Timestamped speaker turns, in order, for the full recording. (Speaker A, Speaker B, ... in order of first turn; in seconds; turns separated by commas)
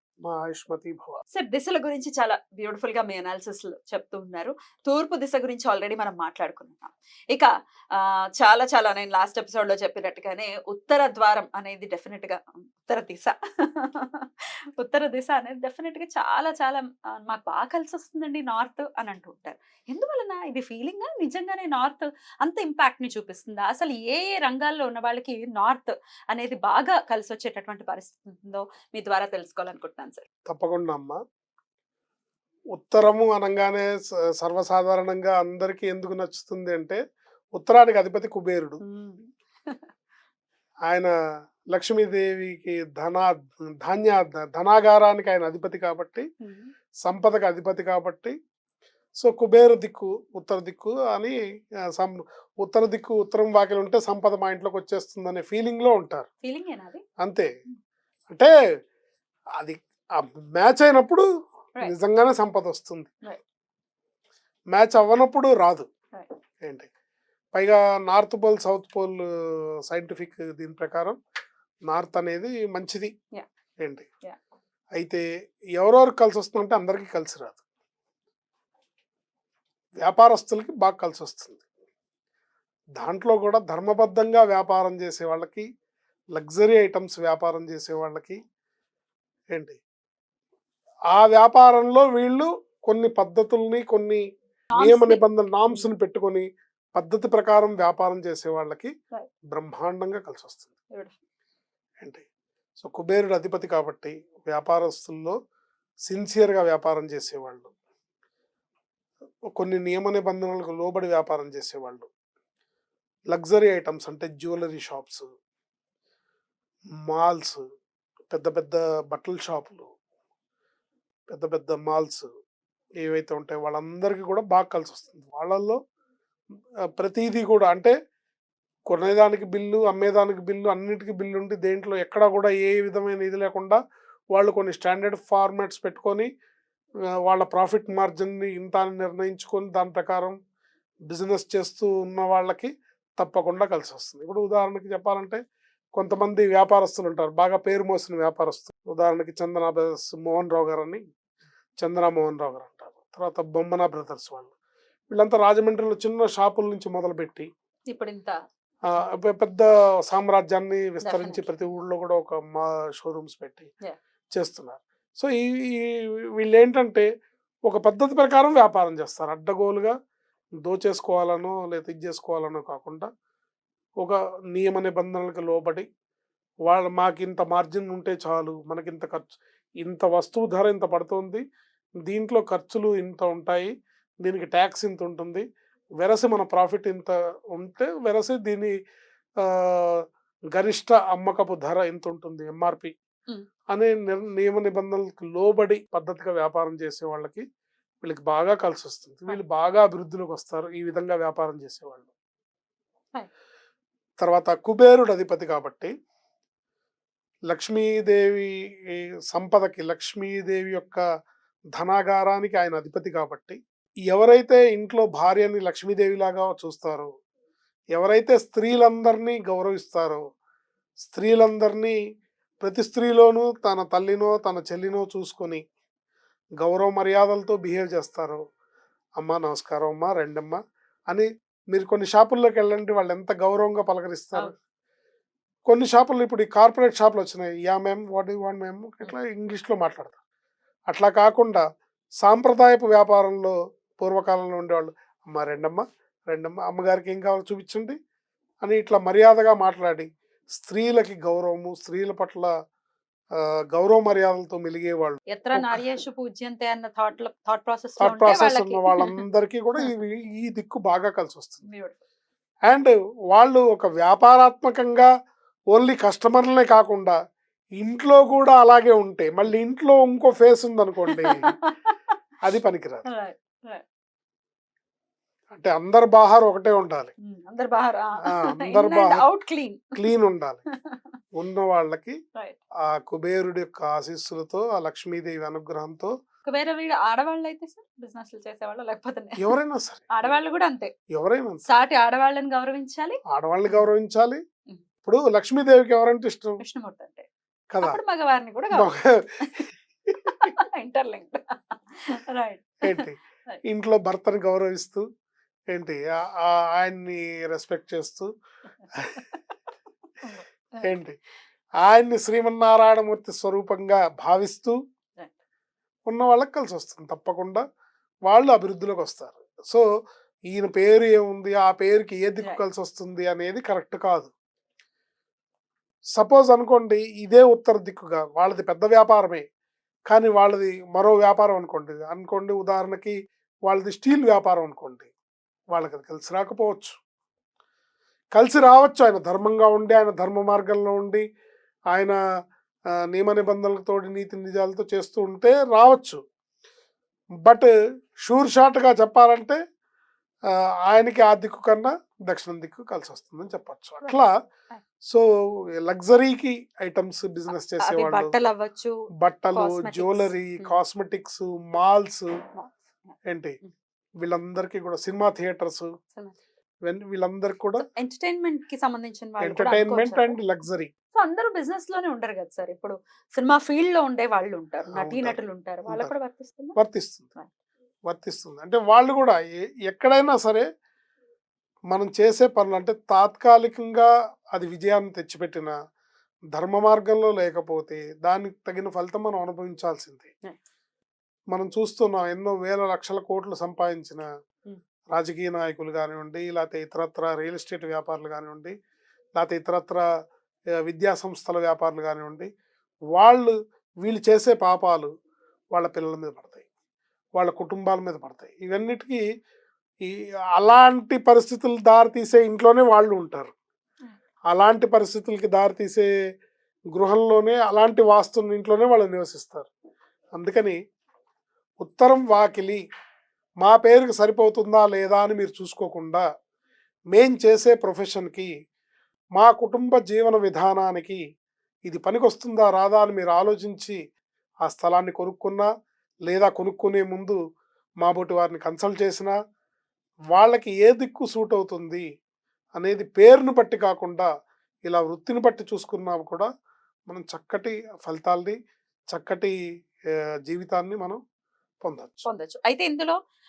Speaker A: 0.2-1.2, Speaker B: 1.3-30.2, Speaker A: 30.5-31.2, Speaker A: 32.7-37.0, Speaker A: 37.6-38.8, Speaker B: 38.8-39.8, Speaker A: 41.7-46.2, Speaker B: 46.4-46.7, Speaker A: 47.0-48.4, Speaker A: 49.2-51.4, Speaker A: 52.0-56.3, Speaker B: 56.4-57.0, Speaker A: 57.2-57.5, Speaker A: 59.6-61.2, Speaker A: 61.8-63.1, Speaker A: 64.7-65.9, Speaker A: 66.6-66.9, Speaker A: 67.5-69.3, Speaker A: 69.9-71.2, Speaker A: 71.9-73.1, Speaker A: 75.0-75.2, Speaker A: 75.8-77.6, Speaker A: 80.0-81.6, Speaker A: 83.0-85.7, Speaker A: 86.3-88.4, Speaker A: 89.5-89.8, Speaker A: 91.1-94.2, Speaker B: 94.7-95.9, Speaker A: 94.8-98.9, Speaker A: 99.5-100.7, Speaker A: 102.8-105.4, Speaker A: 106.1-107.7, Speaker A: 109.5-112.1, Speaker A: 113.3-115.2, Speaker A: 117.1-117.6, Speaker A: 118.3-119.9, Speaker A: 121.3-122.3, Speaker A: 123.0-125.8, Speaker A: 127.0-127.9, Speaker A: 128.9-133.8, Speaker A: 134.3-136.3, Speaker A: 137.3-140.4, Speaker A: 141.1-145.4, Speaker A: 145.9-151.0, Speaker A: 151.8-154.5, Speaker A: 155.1-157.5, Speaker B: 157.9-158.4, Speaker A: 158.9-163.7, Speaker B: 161.0-161.5, Speaker A: 164.3-167.1, Speaker A: 167.7-169.9, Speaker A: 170.6-173.1, Speaker A: 174.0-175.9, Speaker A: 176.7-181.4, Speaker A: 182.1-183.7, Speaker A: 184.2-185.4, Speaker A: 186.0-188.7, Speaker A: 189.4-192.9, Speaker A: 193.7-197.4, Speaker A: 198.0-202.1, Speaker A: 204.2-205.9, Speaker A: 207.5-211.0, Speaker A: 211.7-217.1, Speaker A: 217.9-220.2, Speaker A: 221.0-222.0, Speaker A: 222.6-225.6, Speaker A: 226.6-228.4, Speaker A: 229.2-230.6, Speaker A: 231.1-234.5, Speaker A: 235.7-240.2, Speaker A: 240.9-241.6, Speaker A: 242.2-248.0, Speaker A: 248.6-252.5, Speaker A: 253.4-255.9, Speaker B: 255.3-259.2, Speaker A: 258.0-261.6, Speaker B: 261.6-262.0, Speaker A: 262.7-265.1, Speaker A: 265.7-267.1, Speaker A: 267.8-271.5, Speaker B: 271.1-271.9, Speaker A: 272.4-273.1, Speaker B: 273.1-273.8, Speaker A: 275.5-277.1, Speaker B: 277.2-279.9, Speaker A: 278.2-279.3, Speaker A: 279.9-280.6, Speaker A: 281.4-282.2, Speaker A: 282.9-286.1, Speaker B: 286.5-289.5, Speaker A: 289.4-290.4, Speaker B: 290.1-290.9, Speaker A: 291.1-291.7, Speaker B: 291.7-293.9, Speaker A: 293.3-294.4, Speaker A: 295.1-296.6, Speaker B: 296.6-297.3, Speaker A: 297.7-298.0, Speaker B: 297.8-299.7, Speaker A: 298.7-299.4, Speaker A: 300.1-300.5, Speaker B: 300.3-303.6, Speaker A: 302.8-305.1, Speaker A: 305.7-308.3, Speaker A: 308.9-309.2, Speaker B: 310.2-310.9, Speaker A: 310.8-311.2, Speaker A: 311.8-314.8, Speaker A: 316.1-317.6, Speaker A: 318.3-319.8, Speaker A: 320.5-324.3, Speaker A: 326.2-329.4, Speaker A: 330.1-333.1, Speaker A: 333.7-335.1, Speaker A: 335.7-337.0, Speaker A: 338.3-341.2, Speaker A: 341.9-342.2, Speaker A: 343.1-346.2, Speaker A: 348.2-349.6, Speaker A: 350.9-354.3, Speaker A: 355.8-358.4, Speaker B: 357.8-359.0, Speaker A: 359.2-362.3, Speaker B: 359.5-360.8, Speaker B: 362.6-363.7, Speaker A: 363.3-363.6, Speaker A: 364.2-365.9, Speaker A: 366.9-367.9, Speaker B: 367.8-370.4, Speaker A: 369.4-370.9, Speaker B: 371.1-376.8, Speaker A: 374.9-376.1, Speaker A: 376.8-377.4, Speaker A: 378.1-380.7, Speaker A: 381.9-385.7, Speaker A: 386.5-390.3, Speaker A: 391.5-394.2, Speaker A: 395.1-398.8, Speaker A: 399.4-400.0, Speaker A: 400.9-402.5, Speaker A: 403.1-405.1, Speaker A: 405.7-406.7, Speaker A: 407.4-409.2, Speaker A: 410.0-413.5, Speaker A: 414.5-416.1, Speaker A: 416.9-419.7, Speaker A: 420.4-420.8, Speaker A: 421.8-422.8, Speaker A: 423.6-426.2, Speaker A: 427.1-428.5, Speaker A: 429.4-431.2, Speaker A: 431.9-434.0, Speaker A: 434.6-435.7, Speaker A: 436.3-437.4, Speaker A: 438.0-439.4, Speaker A: 440.3-442.0, Speaker A: 442.8-444.3, Speaker A: 444.9-446.5, Speaker A: 447.1-448.6, Speaker A: 449.1-449.5, Speaker A: 450.5-451.2, Speaker A: 451.8-452.3, Speaker B: 452.3-453.2